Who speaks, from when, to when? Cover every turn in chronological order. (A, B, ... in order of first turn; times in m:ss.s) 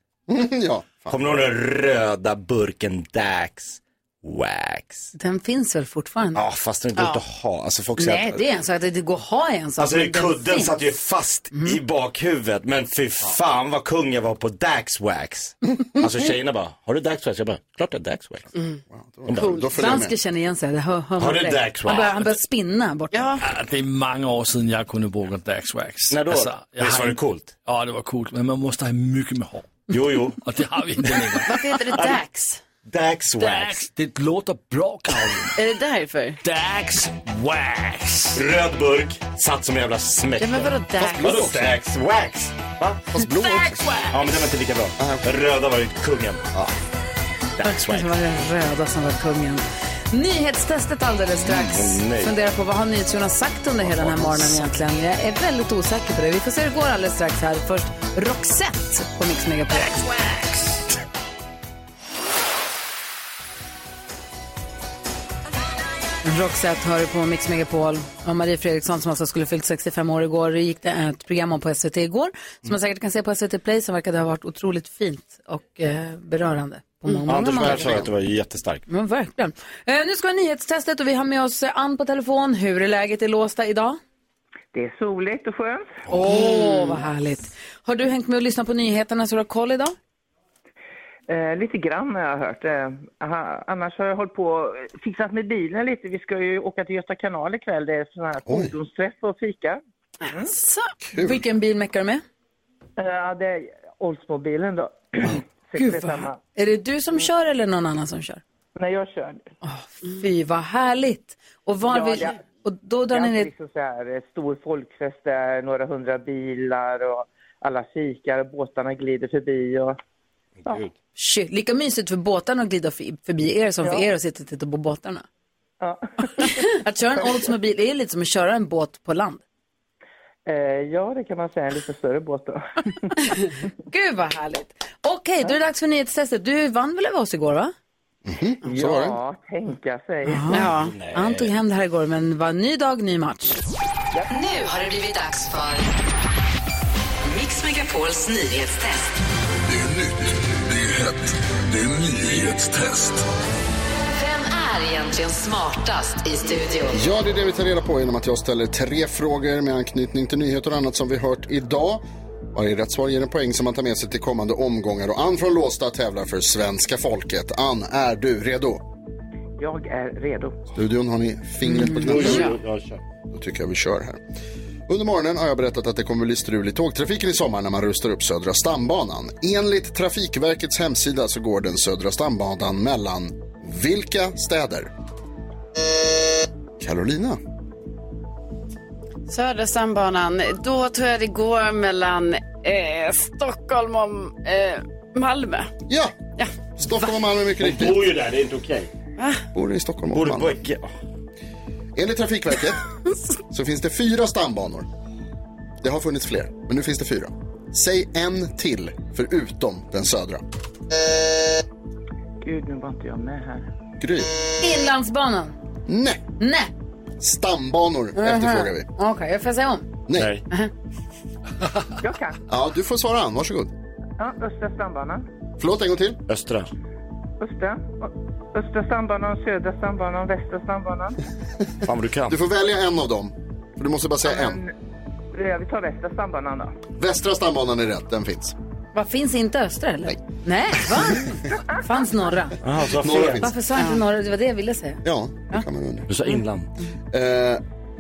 0:00.3-0:01.4 A
0:01.1-0:05.1 B
0:05.1-0:06.4 C
0:06.4-0:08.4 B
0:07.0-0:07.2 D
0:08.0-0:10.7 C
0:09.8-0:18.5 B
0:18.9-0:20.1 A
0:19.3-0:19.6 B
0:19.4-0:20.0 D
0:19.7-0:23.4 C
0:21.2-0:22.3 B
0:23.1-0:23.4 D
0:23.4-0:29.8 E
0:26.1-0:27.5 B
0:29.9-0:30.4 B
0:30.4-0:31.5 E
0:31.4-0:32.6 D
0:32.8-0:33.9 B
0:33.4-0:35.5 E
0:35.6-0:36.4 D
0:36.4-0:38.4 E
0:38.4-0:43.0 B
0:40.4-0:41.5 D
0:41.0-0:41.8 A
0:43.1-0:43.9 A
0:43.4-0:44.2 E
0:44.1-0:46.4 B
0:45.0-0:45.3 A
0:47.6-0:48.2 B
0:47.6-1:00.1 C
0:51.4-0:52.3 B
0:54.2-0:54.6 B
1:06.2-1:18.0 C
1:17.3-1:18.8 B
1:17.4-1:18.1 A
1:18.9-1:24.0 C
1:24.7-1:26.1 F
1:26.1-1:30.0 C
1:26.3-1:27.0 D
1:31.3-1:39.8 F
1:38.5-1:38.7 A
1:40.2-1:40.9 D
1:41.0-1:41.4 A
1:41.2-1:42.2 C
1:43.0-1:46.4 F
1:45.8-1:48.4 C
1:48.8-1:49.5 F
1:49.6-1:53.5 C
1:51.9-1:52.4 F
1:53.1-2:00.0 F
2:00.6-2:00.9 B
2:01.2-2:05.2 C
2:03.8-2:04.1 F
2:05.8-2:06.4 F
2:06.4-2:09.4 C
2:10.5-2:13.2 F
2:13.9-2:17.7 C
2:18.3-2:19.2 A
2:18.6-2:20.6 F
2:20.3-2:23.6 C
2:20.5-2:21.0 D
2:20.6-2:21.5 B
2:24.3-2:25.9 G
2:27.2-2:29.1 G
2:29.7-2:33.2 H
2:34.1-2:37.0 G
2:36.9-2:42.0 A
2:42.5-2:48.8 A
2:49.6-2:50.7 F
2:50.7-2:52.5 A
2:51.7-2:52.0 C
2:51.9-2:52.6 D
2:52.0-2:53.0 B
2:53.3-2:54.2 A
2:54.9-3:04.9 A
3:06.8-3:07.4 A
3:09.3-3:15.7 D
3:15.9-3:18.1 A
3:17.6-3:18.9 B
3:19.2-3:19.4 D
3:19.5-3:20.6 A
3:20.1-3:20.9 B
3:22.0-3:22.8 A
3:23.5-3:24.9 A
3:25.8-3:30.4 A
3:32.4-3:33.7 F
3:34.0-3:34.3 A
3:34.6-3:35.6 C
3:35.9-3:36.2 A
3:36.4-3:36.7 C
3:37.2-3:38.9 A
3:38.2-3:39.9 C
3:40.2-3:40.4 B
3:42.0-3:42.4 F
3:42.5-3:43.7 A
3:44.2-3:45.3 F
3:45.6-3:46.2 A
3:46.3-3:46.7 B
3:47.4-3:51.2 F
3:51.8-3:52.4 B
3:52.3-3:54.6 A
3:54.2-3:54.7 F
3:55.3-3:56.8 F
3:57.0-3:58.6 A
3:59.0-4:05.0 C
4:02.6-4:03.5 B
4:02.8-4:03.6 A
4:03.7-4:04.0 D
4:05.0-4:06.1 A
4:06.1-4:06.7 B
4:07.1-4:07.6 A